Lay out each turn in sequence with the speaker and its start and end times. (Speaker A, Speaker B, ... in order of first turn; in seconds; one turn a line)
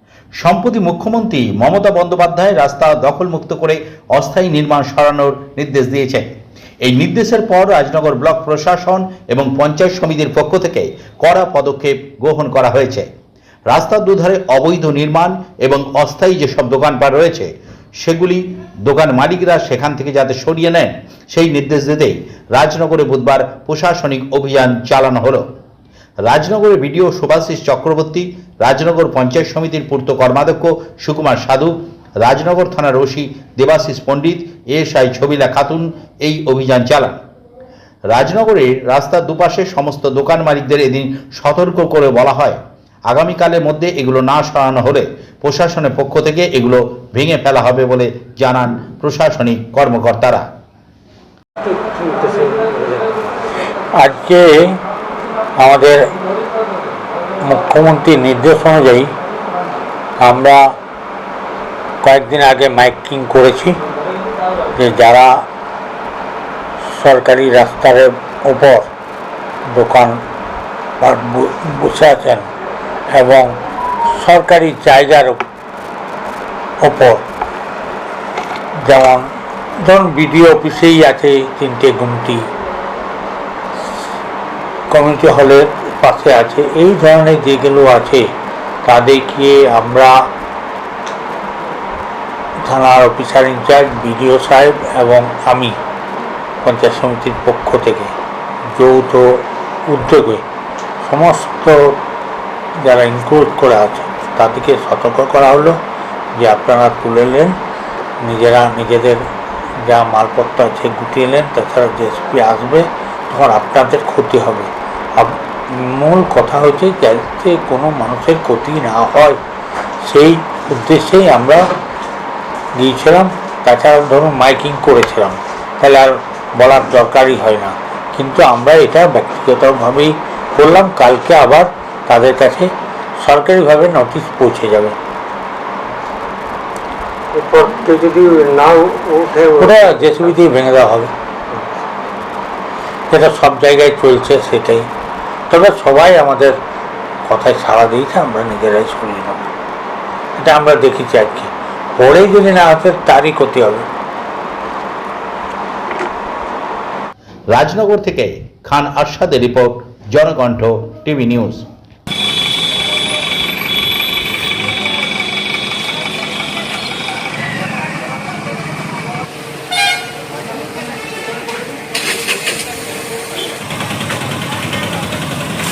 Speaker A: 0.4-6.3
Speaker A: 6.8-13.1
Speaker A: 13.7-17.5
Speaker A: 18.0-25.4
Speaker A: 26.3-37.2
Speaker A: 38.1-42.6
Speaker A: 43.1-50.4
Speaker B: 51.6-53.3
Speaker C: 54.0-54.7
Speaker C: 55.6-56.0
Speaker C: 57.4-59.1
Speaker C: 60.2-60.7
Speaker C: 62.0-63.8
Speaker C: 64.7-65.5
Speaker C: 66.8-68.9
Speaker C: 69.7-70.2
Speaker C: 71.0-72.5
Speaker C: 73.1-73.6
Speaker C: 74.1-75.4
Speaker C: 76.8-77.2
Speaker C: 78.8-79.3
Speaker C: 79.8-82.5
Speaker C: 84.9-88.3
Speaker C: 88.8-90.1
Speaker C: 92.6-95.8
Speaker C: 96.6-98.1
Speaker C: 98.8-100.4
Speaker C: 101.0-102.0
Speaker C: 102.8-105.8
Speaker C: 106.4-107.5
Speaker C: 108.2-109.2
Speaker C: 109.8-119.4
Speaker C: 120.0-121.7
Speaker C: 122.8-134.9
Speaker B: 137.3-139.9
Speaker C: 139.6-141.1
Speaker B: 141.5-141.8
Speaker C: 143.1-144.9
Speaker C: 145.5-146.5
Speaker C: 147.3-149.5
Speaker C: 150.4-153.9
Speaker A: 157.5-161.7